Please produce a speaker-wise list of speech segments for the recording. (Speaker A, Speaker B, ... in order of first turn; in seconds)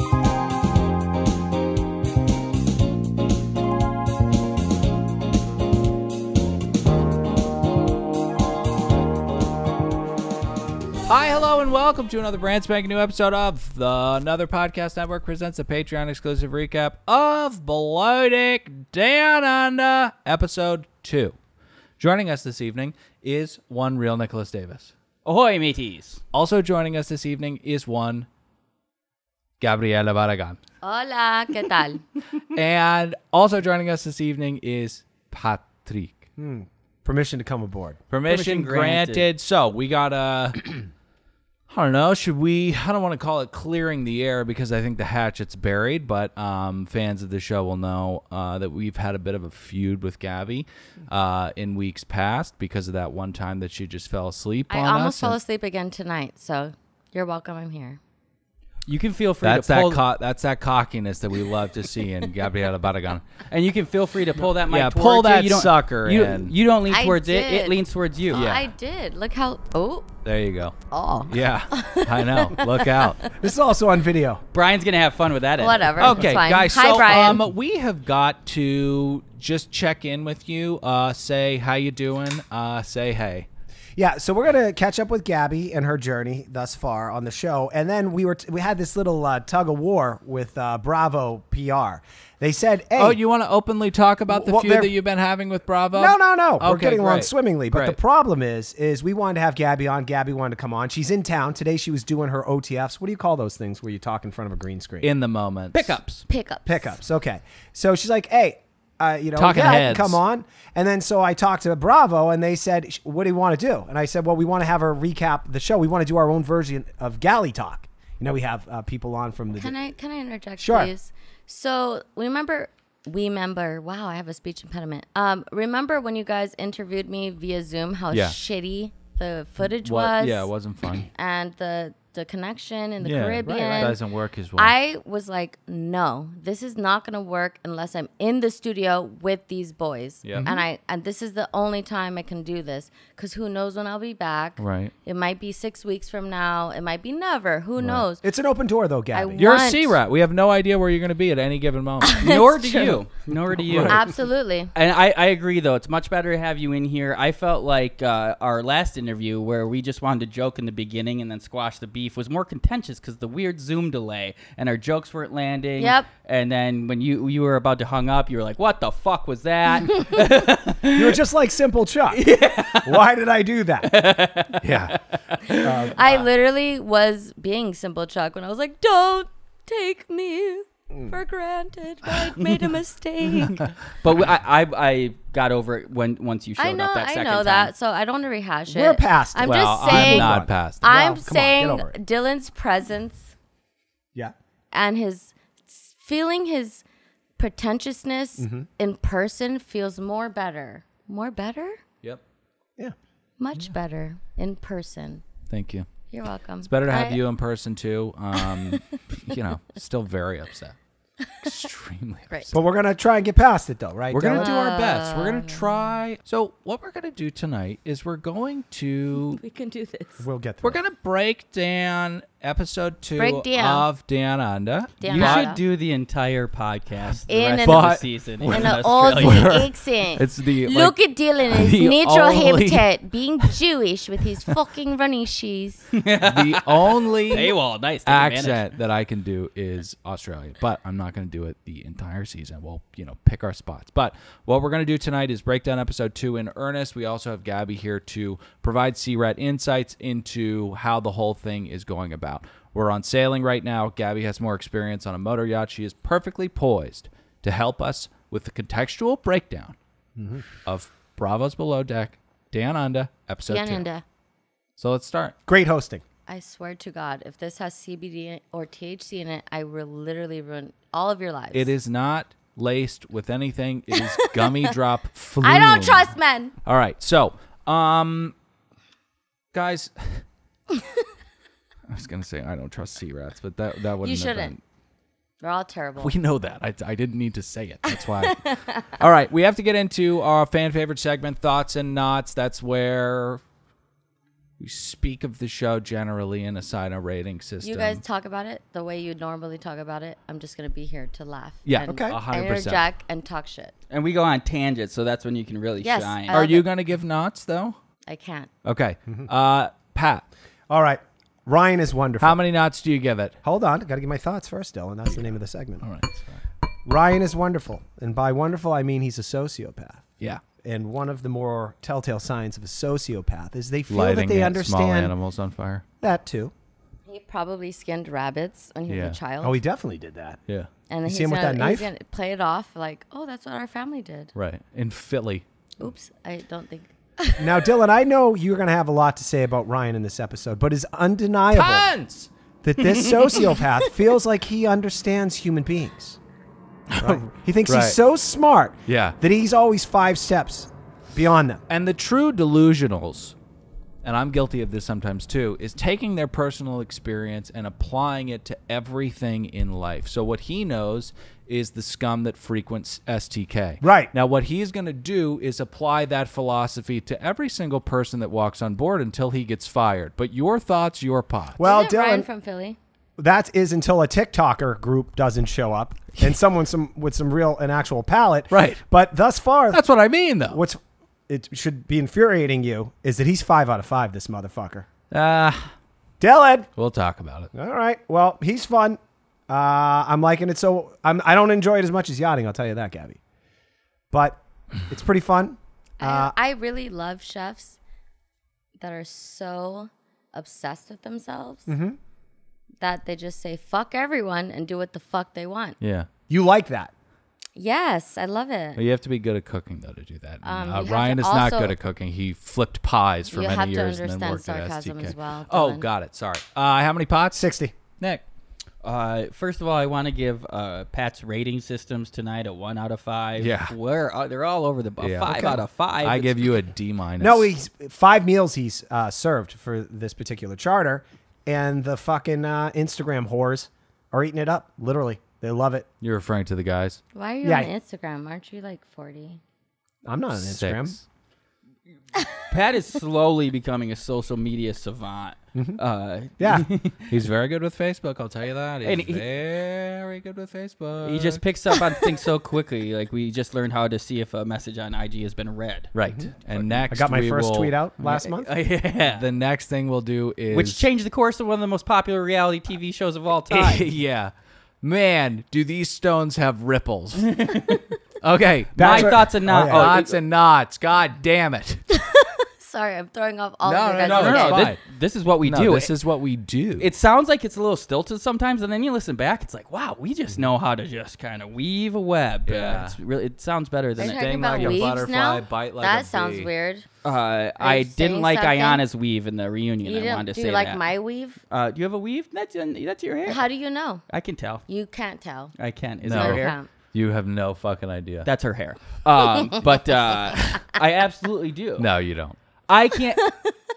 Speaker A: 11.1-21.4, 22.0-24.9, 26.3-28.3, 29.6-30.6, 32.5-36.2, 38.1-40.8, 41.7-55.4, 59.4-63.4, 64.5-66.5, 68.3-68.7, 70.2-70.8, 71.3-73.3, 76.0-83.5, 93.0-98.0, 105.0-106.0, 109.4-110.2, 128.1-128.4, 129.8-131.1, 133.0-134.7, 140.2-140.5, 144.6-144.9, 147.8-148.1, 149.4-152.9, 153.6-154.0, 174.6-174.9, 189.4-190.9, 205.5-205.9, 206.6-210.8, 211.3-212.5, 214.1-219.4, 220.6-225.5, 227.6-232.9, 236.2-237.5, 238.1-259.8, 260.6-263.9, 264.8-265.4, 271.5-278.3, 279.5-280.2, 281.9-284.6, 286.0-293.4, 294.6-298.0, 301.6-302.8, 306.3-307.8, 308.6-310.2, 312.2-313.4, 315.8-316.4, 323.9-325.8, 328.9-329.2, 334.4-335.4, 341.5-342.3, 346.9-348.0, 348.9-349.2, 351.7-353.4, 354.0-371.6, 378.5-378.8, 379.7-380.6, 385.1-385.7, 386.8-387.5, 405.8-406.1, 408.8-417.5, 423.4-423.7, 425.0-427.4, 436.0-437.0, 440.3-441.0, 447.1-451.4, 455.9-457.7, 459.0-460.9, 463.5-467.5, 468.2-471.8, 473.6-474.8, 475.4-476.9, 482.5-483.0, 484.0-486.5, 496.0-498.3, 501.8-502.4
Speaker B: 25.2-26.2, 38.3-39.2, 58.9-60.0, 63.5-68.4, 74.5-76.2, 105.7-106.2, 152.2-154.0, 154.8-171.2, 172.1-173.1, 173.8-176.3, 184.0-187.7, 225.1-229.5, 235.9-238.7, 303.9-306.4, 418.8-426.3, 442.5-447.1, 448.8-449.2, 451.0-455.9, 458.1-459.2, 460.5-463.9, 467.2-467.8, 468.8-470.1, 474.1-475.9, 476.8-484.8, 487.0-490.8, 491.5-493.4, 494.1-494.6, 495.6-496.6, 498.2-501.9, 502.7-503.2
Speaker C: 30.8-32.0, 54.7-58.0, 66.9-67.8, 68.3-70.1, 70.9-73.3, 75.6-77.4, 106.3-107.0, 109.5-109.9, 119.6-130.5, 131.1-134.0, 134.6-148.2, 149.1-150.0, 152.1-153.0, 153.8-154.7, 165.8-166.1, 175.9-183.7, 186.6-193.3, 194.7-196.8, 197.4-201.8, 203.4-205.2, 206.1-207.2, 208.3-208.8, 214.3-215.6, 219.1-220.3, 223.2-223.9, 225.0-225.6, 227.3-235.9, 263.5-264.0, 266.3-271.7, 274.0-274.7, 275.4-276.6, 284.0-284.5, 285.4-286.1, 287.9-288.9, 297.6-303.8, 305.8-306.7, 308.1-308.5, 327.1-329.6, 330.9-334.3, 335.8-337.7, 371.6-372.8, 396.0-397.8, 398.8-401.7, 402.8-405.8, 407.6-408.8, 410.4-411.7, 413.3-415.9, 437.1-439.4, 471.9-474.7, 484.0-486.9, 487.6-488.8, 489.8-491.4, 493.3-494.1, 494.7-495.5, 496.1-496.7, 503.2-503.6
Speaker D: 36.4-38.0, 73.4-74.4, 84.0-93.2, 94.3-94.9, 96.0-105.1, 106.7-119.8, 120.6-120.9, 133.5-133.9, 140.3-140.6, 148.2-149.4, 170.9-172.2, 172.8-173.9, 175.6-176.0, 180.9-181.2, 188.7-192.0, 198.4-198.7, 212.5-214.6, 220.2-220.8, 260.2-260.5, 265.5-266.0, 301.8-302.1, 310.7-312.4, 313.4-315.9, 316.9-320.0, 320.6-325.1, 326.0-326.5, 329.4-330.4, 331.1-331.9, 337.4-341.9, 342.6-346.2, 347.0-351.6, 363.8-364.1, 371.6-372.3, 373.2-379.8, 380.5-384.9, 386.2-386.7, 387.5-393.2, 394.1-396.3, 401.7-402.0, 406.3-406.9, 417.3-417.7, 425.3-425.6, 427.2-435.9, 437.4-437.7, 440.1-441.0, 446.4-446.7, 456.9-458.5, 468.8-469.9